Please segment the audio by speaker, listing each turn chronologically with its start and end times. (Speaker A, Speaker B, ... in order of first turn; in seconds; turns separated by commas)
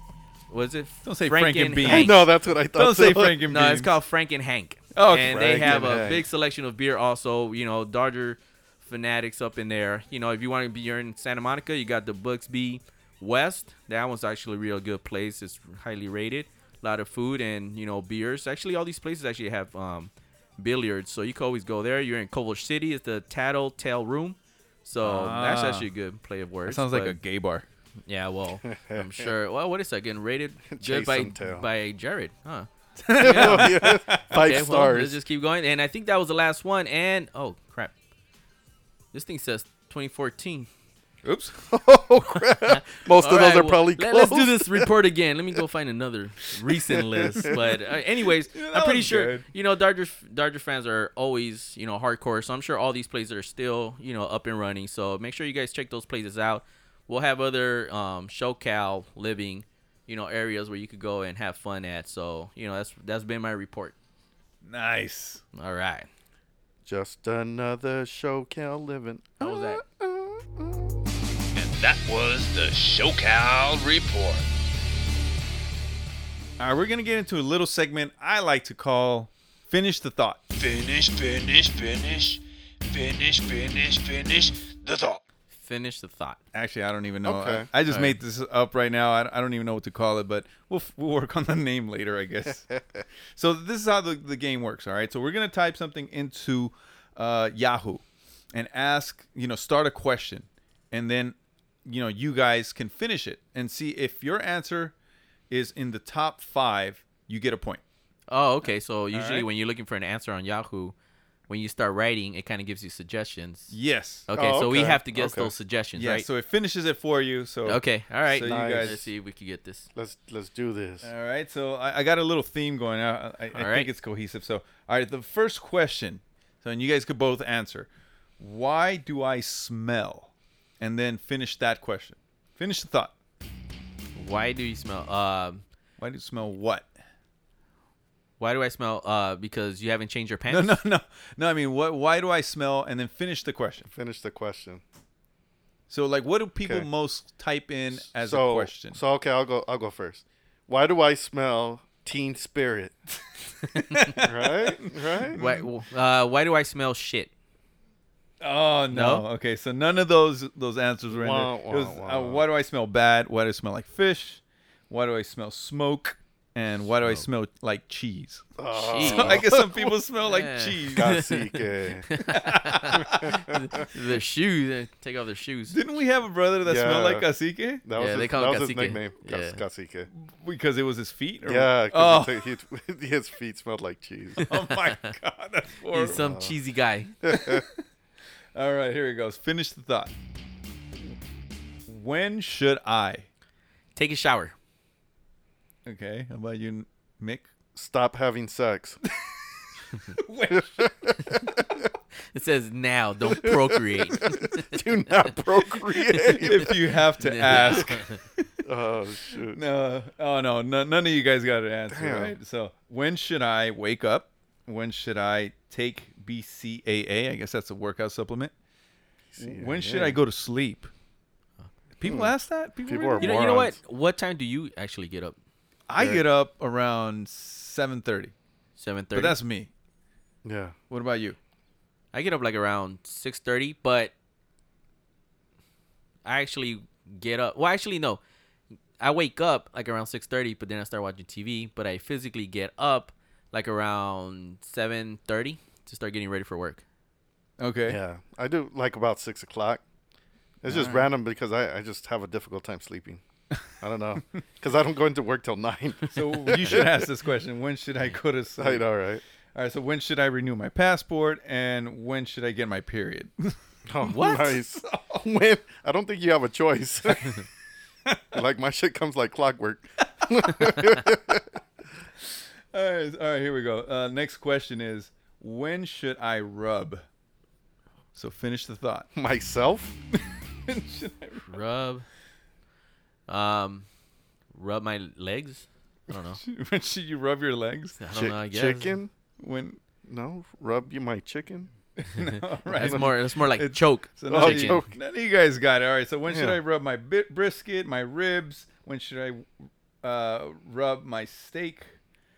Speaker A: 0.5-2.2, Speaker B: 1.0-3.9, Speaker C: 1.9-3.4, Speaker A: 3.5-27.2, Speaker B: 4.9-6.0, Speaker C: 5.2-6.2, Speaker B: 25.0-25.9, Speaker B: 26.6-27.6, Speaker A: 28.1-33.8, Speaker C: 28.6-29.3, Speaker C: 30.7-31.7, Speaker B: 33.0-34.3, Speaker C: 33.2-35.2, Speaker A: 34.3-37.9, Speaker A: 39.1-40.7, Speaker B: 41.2-41.6, Speaker C: 41.7-44.9, Speaker A: 42.7-63.9, Speaker B: 48.5-49.5, Speaker B: 64.6-65.4, Speaker A: 65.5-66.1, Speaker C: 66.8-71.0, Speaker A: 69.4-69.8, Speaker D: 71.5-74.5, Speaker B: 76.6-80.4, Speaker D: 80.5-85.2, Speaker A: 85.5-86.4, Speaker B: 86.5-92.7, Speaker C: 87.2-87.7, Speaker A: 87.9-88.2, Speaker C: 92.7-93.0, Speaker B: 93.3-104.9, Speaker B: 105.5-107.8, Speaker A: 108.3-110.9, Speaker B: 109.1-109.5, Speaker A: 111.5-113.7, Speaker B: 113.7-114.2, Speaker A: 114.3-116.2, Speaker C: 114.3-115.5, Speaker B: 116.0-119.0, Speaker A: 117.7-119.9, Speaker C: 118.4-119.0, Speaker C: 119.9-121.1, Speaker B: 121.0-127.9, Speaker A: 123.5-123.9, Speaker B: 128.4-133.1, Speaker A: 134.2-135.6, Speaker B: 136.0-136.9, Speaker A: 138.4-140.8, Speaker B: 140.5-143.9, Speaker C: 143.9-144.8, Speaker B: 145.9-149.0, Speaker C: 147.9-152.9, Speaker B: 153.9-155.7, Speaker C: 154.2-155.4, Speaker A: 155.3-157.3, Speaker B: 158.4-168.5, Speaker A: 158.9-159.2, Speaker C: 161.1-162.4, Speaker C: 168.6-169.5, Speaker A: 168.7-175.8, Speaker B: 169.0-171.2, Speaker C: 170.9-172.1, Speaker B: 172.3-173.2, Speaker C: 173.0-173.6, Speaker B: 175.7-177.8, Speaker C: 176.6-177.3, Speaker C: 177.8-180.1, Speaker A: 178.0-179.6, Speaker B: 180.1-182.4, Speaker C: 181.4-184.4, Speaker A: 184.4-185.1, Speaker B: 184.5-186.3, Speaker A: 185.9-187.1, Speaker C: 186.2-186.5, Speaker C: 187.2-187.6, Speaker B: 187.3-187.8, Speaker B: 188.5-190.1, Speaker B: 191.9-193.3, Speaker A: 193.9-194.5, Speaker B: 195.8-197.5, Speaker C: 197.7-199.0, Speaker B: 200.1-201.7, Speaker C: 200.6-201.3, Speaker A: 202.3-204.7, Speaker C: 203.3-206.8, Speaker B: 206.3-208.4, Speaker A: 207.2-208.2, Speaker C: 207.5-207.8, Speaker C: 208.6-209.6, Speaker B: 209.5-218.5, Speaker C: 211.9-212.3, Speaker C: 219.3-220.2, Speaker B: 219.4-220.9, Speaker B: 222.0-223.5, Speaker C: 222.0-222.3, Speaker C: 222.8-223.8, Speaker A: 223.2-225.3, Speaker B: 225.9-228.3, Speaker C: 226.0-226.2, Speaker A: 228.8-229.4, Speaker B: 229.1-229.7, Speaker C: 230.4-230.8, Speaker B: 230.9-231.4, Speaker A: 232.1-234.1, Speaker A: 236.2-238.2, Speaker A: 239.0-246.8, Speaker B: 247.6-248.0, Speaker C: 247.8-249.8, Speaker C: 250.6-253.2, Speaker B: 250.7-251.1, Speaker C: 253.8-257.1, Speaker B: 256.1-258.9, Speaker C: 258.6-259.2, Speaker B: 259.5-263.6, Speaker C: 263.9-267.4, Speaker A: 264.0-264.6, Speaker B: 264.7-265.2, Speaker C: 268.3-271.6, Speaker B: 272.7-277.0, Speaker B: 278.1-279.1, Speaker C: 279.1-280.0, Speaker B: 280.7-281.6, Speaker A: 281.5-282.1, Speaker A: 283.3-283.9, Speaker A: 284.5-286.4, Speaker B: 286.4-288.0, Speaker A: 288.0-289.0, Speaker C: 288.1-289.1, Speaker B: 289.4-289.8, Speaker C: 290.0-291.7, Speaker B: 292.0-299.5, Speaker A: 292.3-294.8, Speaker C: 292.7-293.1, Speaker C: 294.3-294.9, Speaker C: 296.3-296.6, Speaker B: 300.0-301.9